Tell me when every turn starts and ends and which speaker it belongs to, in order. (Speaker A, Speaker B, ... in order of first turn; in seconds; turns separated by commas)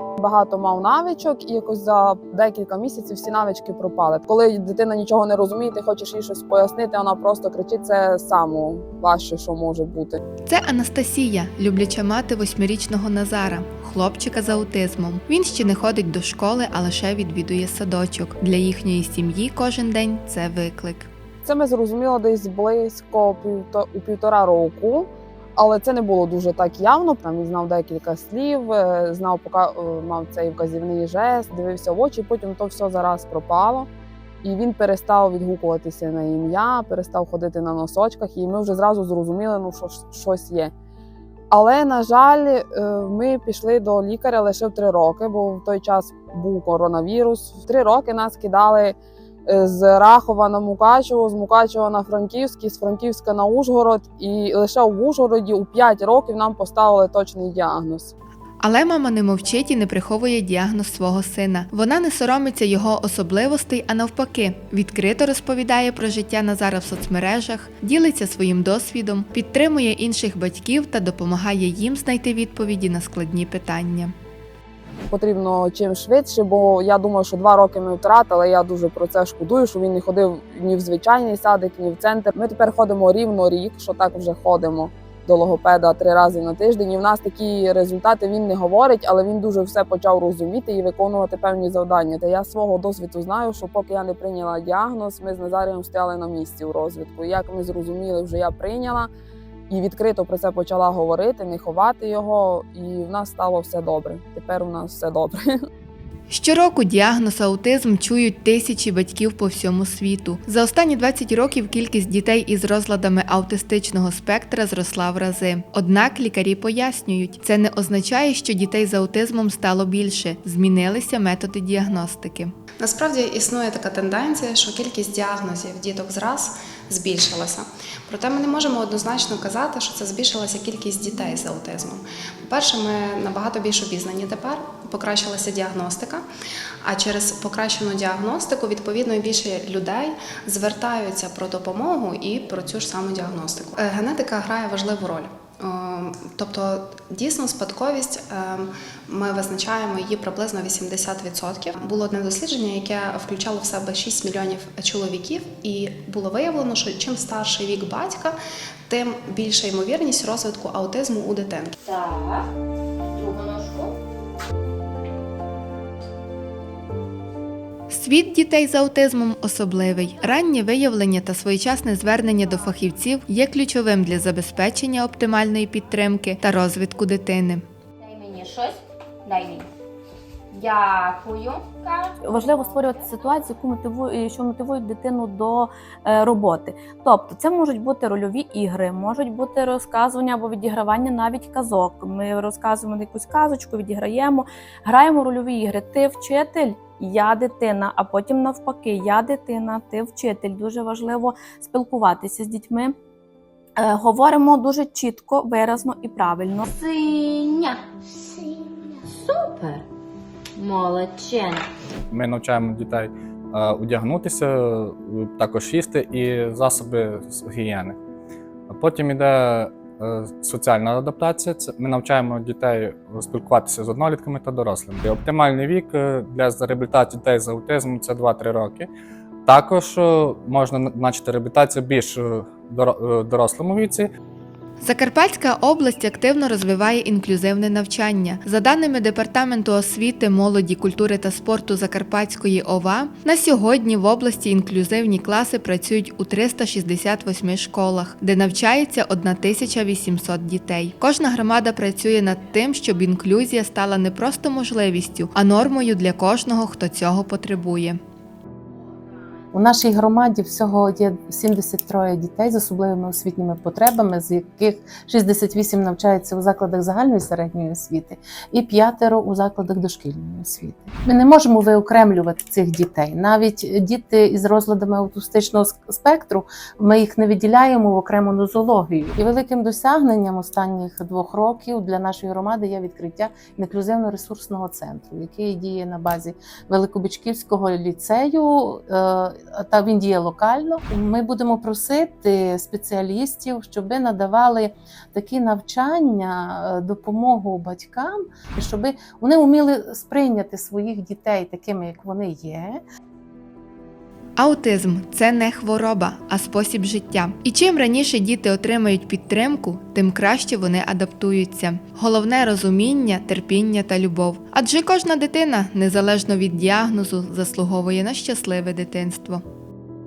Speaker A: 0.2-10.2, Speaker B: 10.4-21.1, Speaker A: 21.4-33.9, Speaker A: 34.4-40.7, Speaker A: 41.5-58.1, Speaker B: 58.6-74.1, Speaker A: 75.1-99.1, Speaker A: 99.7-105.4, Speaker B: 106.3-122.5, Speaker C: 122.8-136.2, Speaker C: 136.8-158.3, Speaker C: 158.9-161.7, Speaker D: 161.8-162.5, Speaker D: 163.1-163.9, Speaker B: 167.9-177.6, Speaker D: 178.0-179.7, Speaker D: 180.5-183.2, Speaker E: 182.2-202.9, Speaker E: 203.8-206.7, Speaker D: 206.7-207.8, Speaker D: 209.1-209.8, Speaker D: 210.6-211.7, Speaker F: 212.1-218.0, Speaker F: 218.7-228.9, Speaker F: 229.4-234.1, Speaker B: 234.8-258.0, Speaker G: 259.5-302.8, Speaker B: 304.4-319.4